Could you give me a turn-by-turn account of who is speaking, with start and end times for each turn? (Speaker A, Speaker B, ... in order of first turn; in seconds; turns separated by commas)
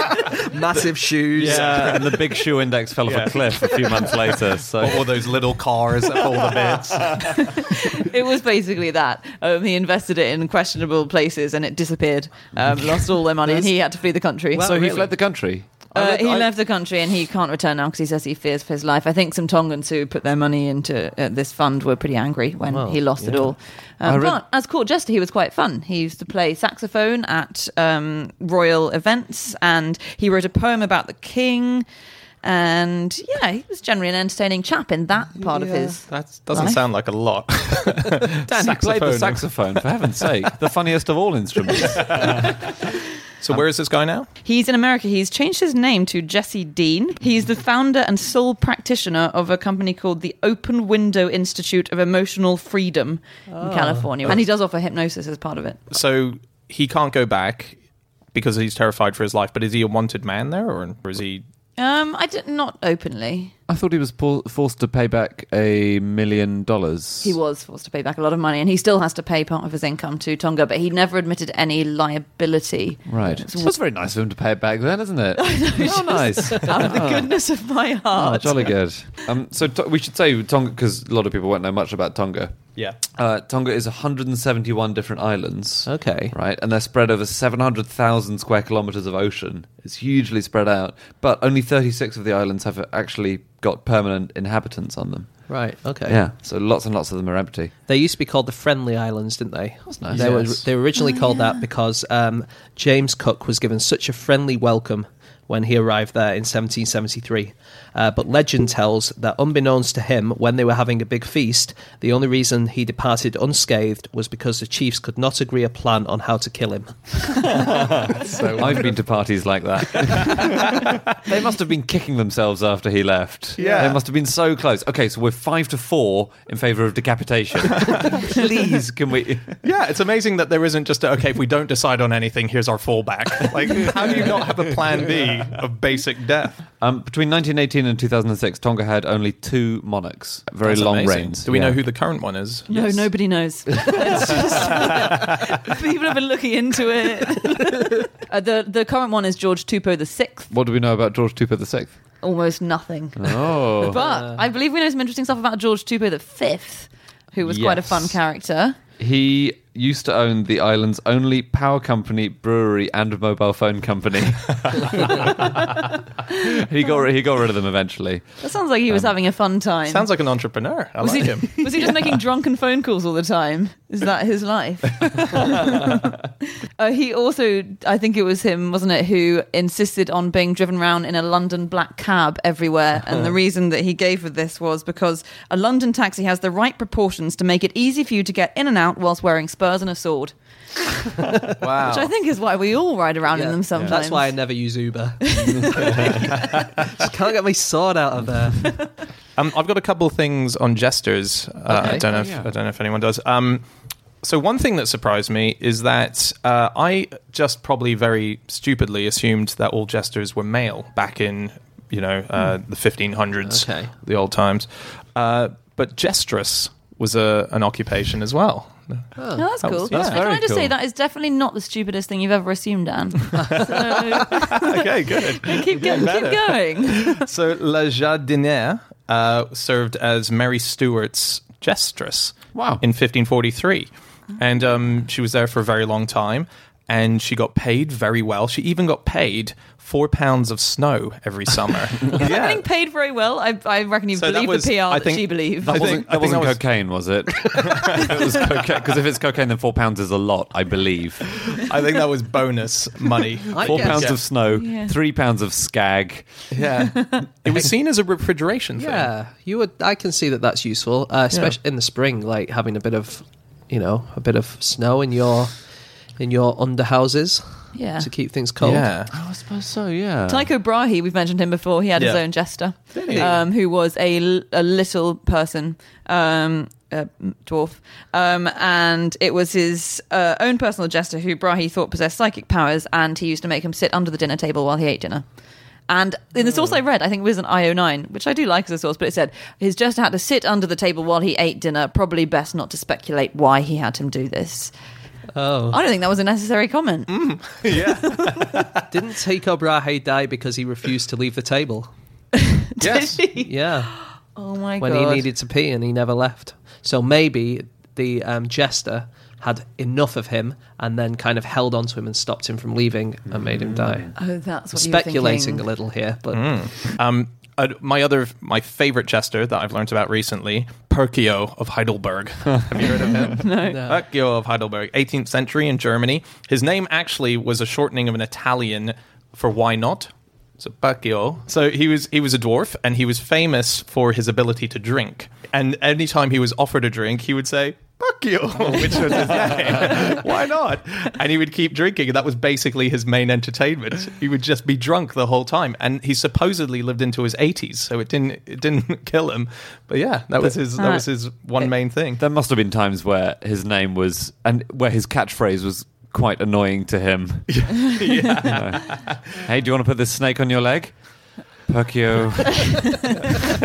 Speaker A: 0.3-2.2, Speaker B: 1.3-5.2, Speaker C: 1.4-2.1, Speaker C: 3.0-7.5, Speaker B: 6.3-7.3, Speaker D: 7.2-15.1, Speaker B: 14.6-16.4, Speaker A: 14.7-15.1, Speaker D: 15.9-31.9, Speaker A: 22.7-23.5, Speaker B: 24.0-24.4, Speaker D: 32.4-36.8, Speaker C: 35.5-39.6, Speaker B: 38.5-42.7, Speaker C: 42.0-42.6, Speaker C: 43.4-44.3, Speaker D: 44.4-55.8, Speaker A: 53.5-54.4, Speaker C: 55.9-57.8, Speaker C: 58.3-61.4, Speaker D: 61.8-63.5, Speaker B: 63.7-67.4, Speaker D: 67.2-73.8, Speaker B: 73.1-77.3, Speaker D: 75.3-78.7, Speaker A: 78.2-78.7, Speaker B: 78.3-95.5, Speaker A: 85.8-86.3, Speaker A: 95.5-96.2, Speaker B: 96.0-97.7, Speaker A: 97.9-117.6, Speaker B: 99.9-100.6, Speaker D: 101.0-101.6, Speaker B: 117.5-129.6, Speaker C: 117.7-119.0, Speaker C: 123.6-124.0, Speaker A: 123.6-123.9, Speaker C: 127.7-128.2, Speaker C: 129.6-136.6, Speaker B: 136.8-141.8, Speaker C: 140.6-143.1, Speaker D: 142.7-150.5, Speaker B: 150.5-151.9, Speaker D: 152.2-158.8, Speaker B: 153.2-154.0, Speaker B: 157.4-158.1, Speaker B: 159.0-169.1, Speaker D: 168.4-170.1, Speaker C: 169.9-171.9, Speaker D: 171.0-190.3, Speaker C: 191.6-192.1, Speaker D: 191.8-194.4, Speaker A: 193.3-198.8, Speaker D: 195.2-196.1, Speaker C: 199.3-203.7, Speaker A: 201.7-202.0, Speaker B: 201.7-202.5, Speaker C: 204.2-219.1, Speaker A: 213.4-213.9, Speaker A: 219.2-219.4, Speaker D: 219.3-227.2, Speaker C: 219.6-220.2, Speaker B: 219.9-220.7, Speaker C: 224.2-242.6, Speaker B: 232.5-232.8, Speaker D: 242.1-245.9, Speaker C: 244.1-246.6, Speaker B: 245.6-251.6, Speaker C: 247.5-248.2, Speaker C: 251.5-254.2, Speaker A: 253.5-254.2, Speaker B: 253.6-256.4, Speaker D: 254.5-254.9, Speaker C: 256.5-259.1, Speaker D: 256.9-257.2, Speaker A: 258.8-265.5, Speaker A: 266.2-268.9, Speaker D: 267.7-268.1, Speaker C: 268.6-269.1, Speaker B: 269.1-270.4, Speaker D: 270.3-285.2, Speaker C: 272.0-272.2, Speaker C: 272.9-273.3, Speaker A: 273.0-273.3, Speaker D: 285.9-294.7, Speaker A: 295.3-295.8, Speaker D: 295.7-297.2, Speaker C: 297.1-298.8, Speaker A: 298.9-301.9, Speaker D: 302.4-305.3, Speaker C: 302.8-303.2, Speaker A: 303.4-303.9, Speaker A: 304.8-314.1, Speaker B: 313.4-314.1, Speaker D: 314.1-315.6, Speaker A: 314.7-316.7, Speaker C: 316.3-352.2, Speaker D: 323.3-323.8, Speaker A: 323.7-324.0, Speaker D: 350.8-351.0, Speaker B: 352.2-360.9, Speaker C: 357.5-359.1, Speaker B: 361.7-363.4